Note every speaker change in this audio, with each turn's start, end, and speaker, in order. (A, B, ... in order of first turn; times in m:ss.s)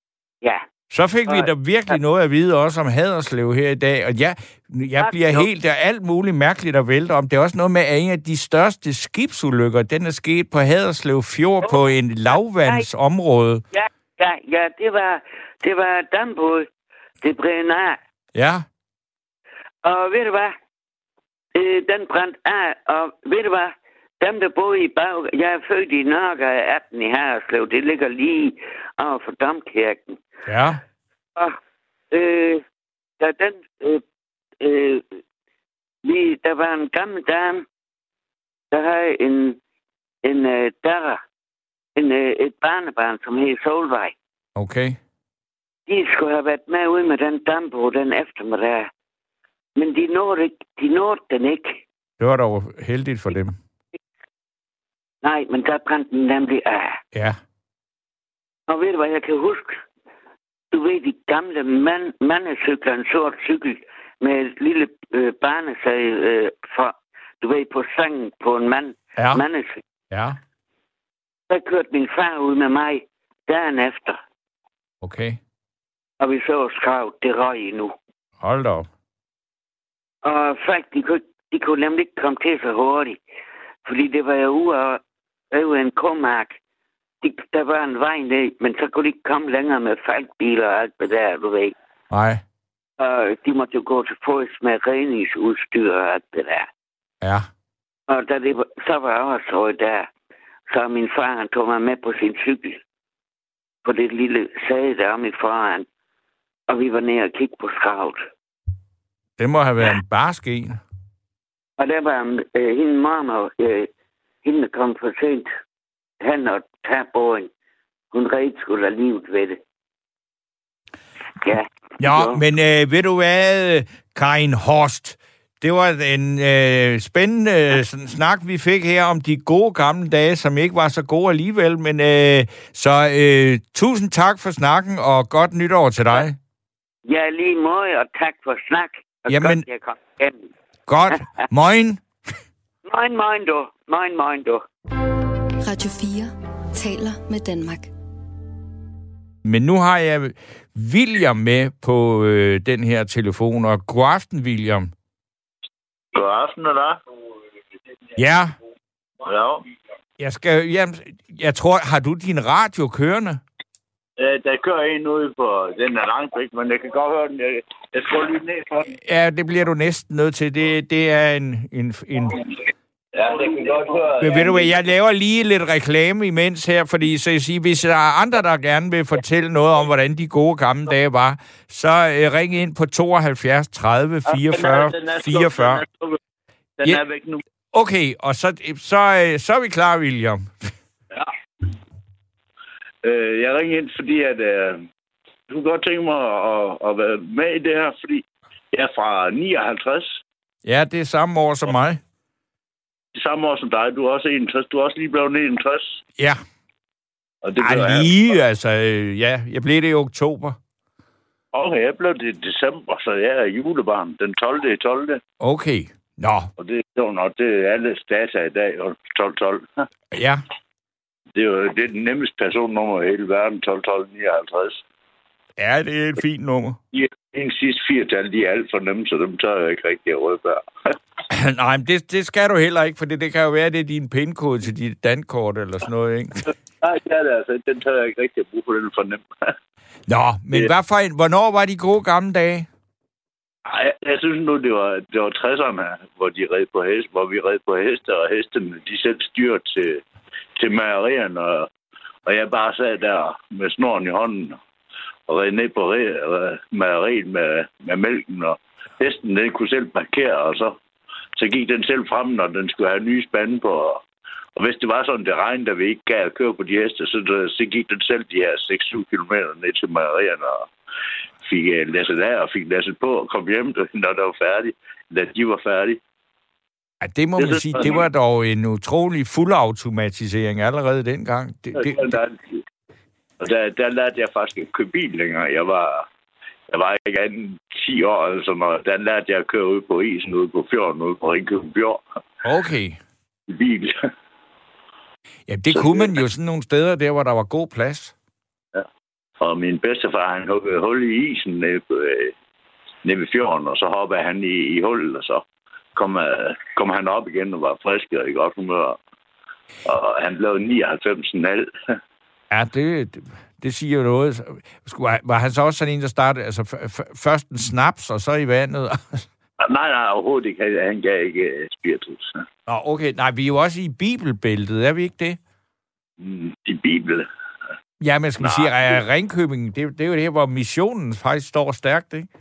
0:00.9-0:13.6 A
0:05.0-0:05.5 B
0:13.7-0:16.7 B
0:17.2-0:18.0 B
0:18.3-0:18.6 A
0:19.8-0:20.5 B
0:21.5-0:30.2 B
0:30.4-0:30.8 A
0:32.1-0:32.6 B
0:33.2-0:34.0 B
0:34.6-0:35.1 B
0:36.0-0:37.6 B
0:38.7-0:39.6 B
0:40.2-0:41.2 B
0:42.0-0:44.1 B
0:44.6-0:45.0 A
0:45.9-0:48.9 B
0:49.8-0:51.8 B
0:52.2-0:53.6 A
0:55.2-0:57.0 B
0:57.1-0:57.4 A
0:58.7-0:59.8 B
1:00.7-1:09.8 B
1:09.2-1:09.4 A
1:10.1-1:10.4 A
1:11.5-1:14.2 B
1:15.0-1:15.4 A
1:16.2-1:17.9 B
1:18.4-1:18.9 A
1:20.2-1:23.2 B
1:23.8-1:25.0 B
1:25.5-1:26.6 B
1:27.2-1:31.7 B
1:32.1-1:32.4 A
1:33.0-1:36.7 B
1:37.2-1:37.5 A
1:38.1-1:40.1 B
1:40.7-1:42.8 B
1:43.8-1:45.8 B
1:46.7-1:48.2 B
1:49.4-1:50.8 A
1:51.8-1:53.9 B
1:54.4-1:55.5 B
1:56.2-1:57.5 B
1:58.1-1:59.6 B
2:01.4-2:02.4 B
2:02.0-2:16.4 A
2:17.1-2:20.5 B
2:19.3-2:19.6 A
2:20.9-2:22.0 A
2:21.1-2:21.4 B
2:22.8-2:24.6 B
2:25.6-2:27.9 C
2:29.4-2:34.9 A
2:36.1-2:37.0 D
2:38.2-2:38.5 A
2:39.2-2:39.6 D
2:40.2-2:43.4 A
2:44.2-2:48.9 D
2:48.9-2:52.4 A
2:53.1-2:54.7 D
2:54.2-3:05.8 A
3:04.2-3:06.2 D
3:06.8-3:07.4 D
3:07.7-3:10.7 A
3:13.0-3:14.9 D
3:15.5-3:20.2 D
3:20.6-3:22.0 A
3:23.1-3:26.0 D
3:27.4-3:28.1 D
3:27.6-3:30.6 A
3:31.5-3:35.2 D
3:35.4-3:36.5 A
3:36.6-3:39.9 D
3:40.1-3:40.4 A
3:41.3-3:44.8 D
3:45.6-3:46.8 A
3:46.9-3:50.6 D
3:51.3-3:56.4 A
3:56.4-3:59.5 D
4:00.1-4:02.7 A
4:03.6-4:10.0 D
4:10.6-4:11.7 D
4:12.2-4:14.6 D
4:15.3-4:20.8 D
4:21.4-4:24.0 D
4:24.6-4:30.7 D
4:31.4-4:36.0 D
4:37.0-4:42.1 A
4:37.4-4:38.0 D
4:41.8-4:42.6 D
4:43.4-4:46.0 D
4:46.7-4:52.0 D
4:52.4-4:53.0 A
4:53.5-4:54.0 D
4:55.5-4:58.1 A
4:55.7-4:56.1 D
4:59.4-5:02.3 D
5:03.0-5:09.0 D
5:09.8-5:11.7 D
5:12.5-5:19.3 A
5:19.6-5:22.3 D
5:22.7-5:25.4 A
5:26.2-5:27.3 D
5:28.0-5:32.3 A
5:28.4-5:29.0 D